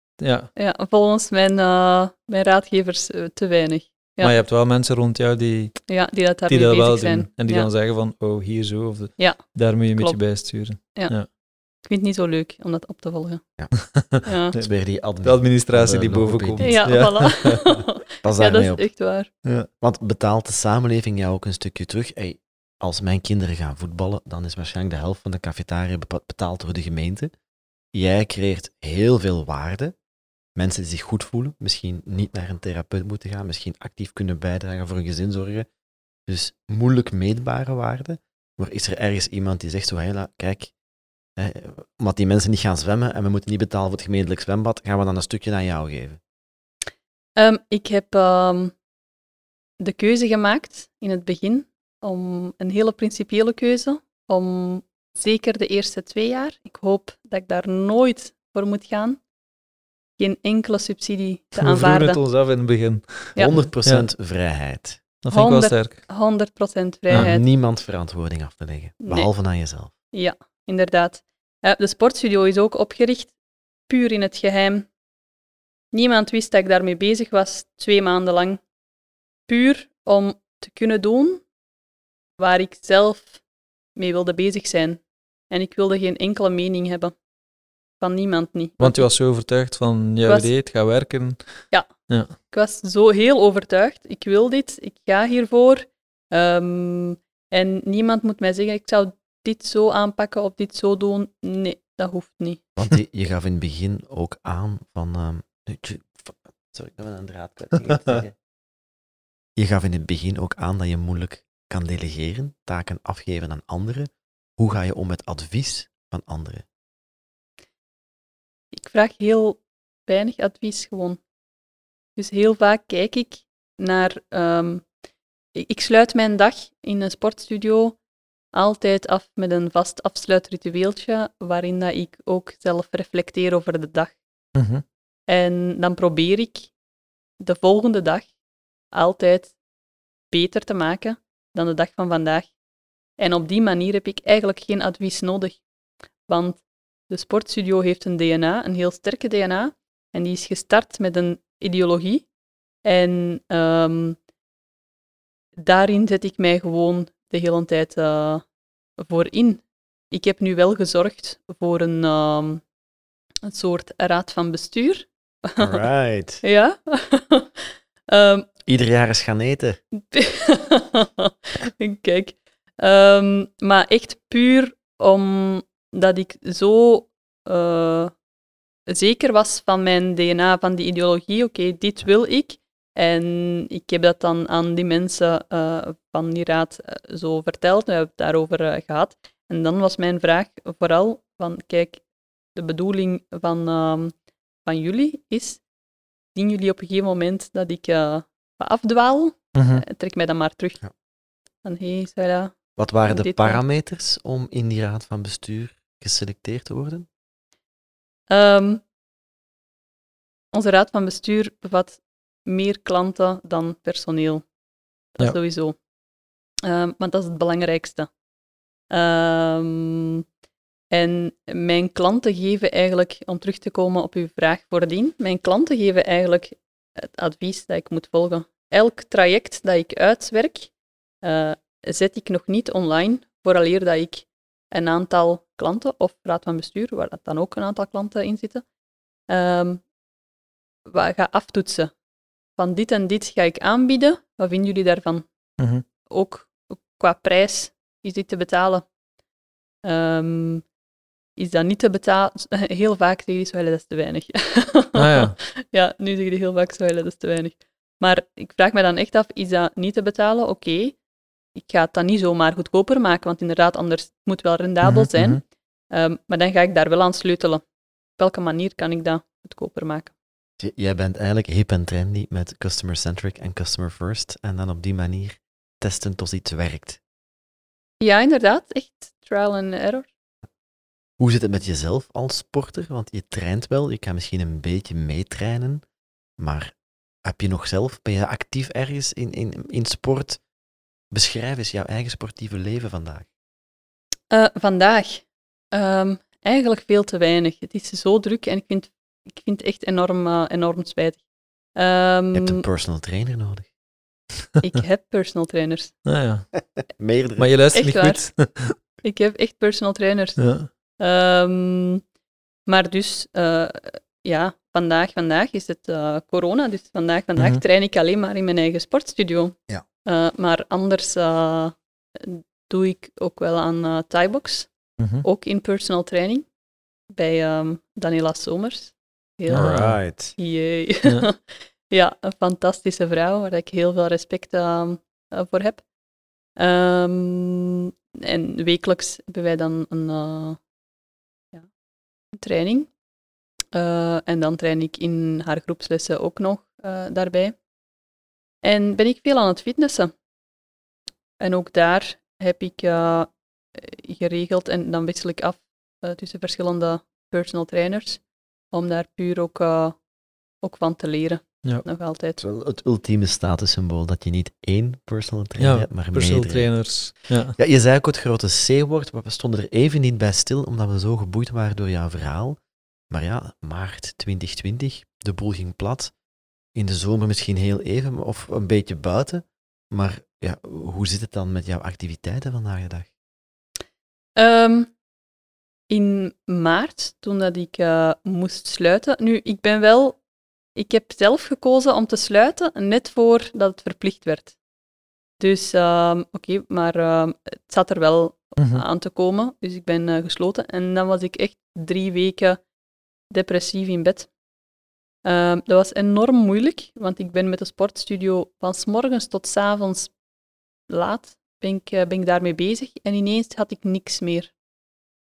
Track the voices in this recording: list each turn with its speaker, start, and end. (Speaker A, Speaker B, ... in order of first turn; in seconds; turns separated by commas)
Speaker A: 0.2-0.5, Speaker B: 0.6-4.3, Speaker A: 4.2-11.3, Speaker B: 5.9-7.7, Speaker B: 9.2-11.2, Speaker B: 11.8-13.4, Speaker A: 13.7-14.7, Speaker B: 14.2-14.6, Speaker C: 14.5-17.1, Speaker A: 15.2-17.8, Speaker B: 16.6-19.3, Speaker C: 18.2-18.9, Speaker C: 19.8-27.3, Speaker C: 27.9-29.9, Speaker C: 30.6-35.7, Speaker C: 36.3-40.7, Speaker C: 41.4-46.2, Speaker B: 47.4-48.7, Speaker B: 49.8-59.2, Speaker B: 60.2-62.2, Speaker A: 61.6-64.0, Speaker B: 63.4-63.6, Speaker C: 63.4-65.0, Speaker A: 65.2-66.0, Speaker B: 65.3-67.4, Speaker C: 67.1-69.9, Speaker B: 69.0-69.3, Speaker B: 70.1-73.3, Speaker B: 73.9-74.9, Speaker B: 75.9-78.6, Speaker B: 79.5-81.4, Speaker B: 82.4-83.4, Speaker B: 84.0-87.2, Speaker B: 88.0-89.1, Speaker A: 88.8-92.3, Speaker B: 90.2-90.5, Speaker B: 91.7-102.6, Speaker C: 102.8-108.4, Speaker C: 109.6-116.7, Speaker B: 118.7-121.2, Speaker B: 122.2-124.9, Speaker B: 125.5-128.0, Speaker B: 128.5-134.2, Speaker A: 134.6-134.8, Speaker B: 135.3-136.7, Speaker B: 137.4-138.3, Speaker B: 138.9-139.6, Speaker B: 140.3-142.5, Speaker B: 143.2-145.6, Speaker B: 146.3-152.3, Speaker B: 152.8-154.2, Speaker B: 155.6-158.5, Speaker B: 159.0-162.6, Speaker B: 163.4-165.7, Speaker C: 165.6-166.4, Speaker B: 166.4-168.5, Speaker C: 168.7-169.8, Speaker B: 170.1-178.1, Speaker B: 178.9-192.0, Speaker B: 192.6-194.1, Speaker B: 194.7-195.6, Speaker B: 196.3-200.8, Speaker A: 199.6-199.8, Speaker B: 201.6-203.6, Speaker C: 202.8-207.1, Speaker B: 208.3-208.8, Speaker B: 210.5-214.4, Speaker B: 215.2-215.8, Speaker B: 216.7-218.1, Speaker B: 218.9-220.2, Speaker B: 220.9-230.7, Speaker B: 231.2-238.6, Speaker B: 239.3-239.8, Speaker B: 240.9-241.9, Speaker B: 242.6-245.3, Speaker A: 245.6-245.8, Speaker B: 246.1-248.9, Speaker B: 249.8-250.7, Speaker B: 251.4-261.0, Speaker A: 254.9-255.3, Speaker B: 261.6-267.6, Speaker A: 264.8-265.4, Speaker B: 268.2-270.1, Speaker C: 270.6-277.0, Speaker B: 278.0-280.1, Speaker C: 281.2-285.8, Speaker C: 286.4-290.4, Speaker C: 291.1-293.3, Speaker B: 294.3-301.2, Speaker B: 301.8-302.7, Speaker C: 302.3-303.7, Speaker B: 304.6-305.9, Speaker A: 306.1-306.6, Speaker C: 306.9-307.7, Speaker A: 307.4-308.8, Speaker B: 307.7-310.5, Speaker A: 310.4-310.7, Speaker B: 311.0-312.0, Speaker B: 312.7-324.7, Speaker A: 317.4-317.6, Speaker A: 325.0-325.2, Speaker B: 325.2-326.5, Speaker B: 327.1-329.8, Speaker A: 329.5-330.0, Speaker C: 329.5-330.4, Speaker B: 330.4-335.8, Speaker B: 336.6-340.6, Speaker B: 342.3-342.9, Speaker B: 343.7-347.6, Speaker B: 348.6-350.1, Speaker B: 351.4-360.0, Speaker B: 360.6-362.4, Speaker C: 362.4-366.9, Speaker A: 365.6-367.6, Speaker C: 367.6-372.6, Speaker C: 373.1-376.1, Speaker C: 376.8-383.1, Speaker B: 384.4-384.9, Speaker B: 385.9-390.2, Speaker B: 390.8-394.6, Speaker B: 395.4-402.6, Speaker A: 398.6-398.9, Speaker B: 403.3-404.3, Speaker B: 405.2-410.1, Speaker B: 410.9-414.5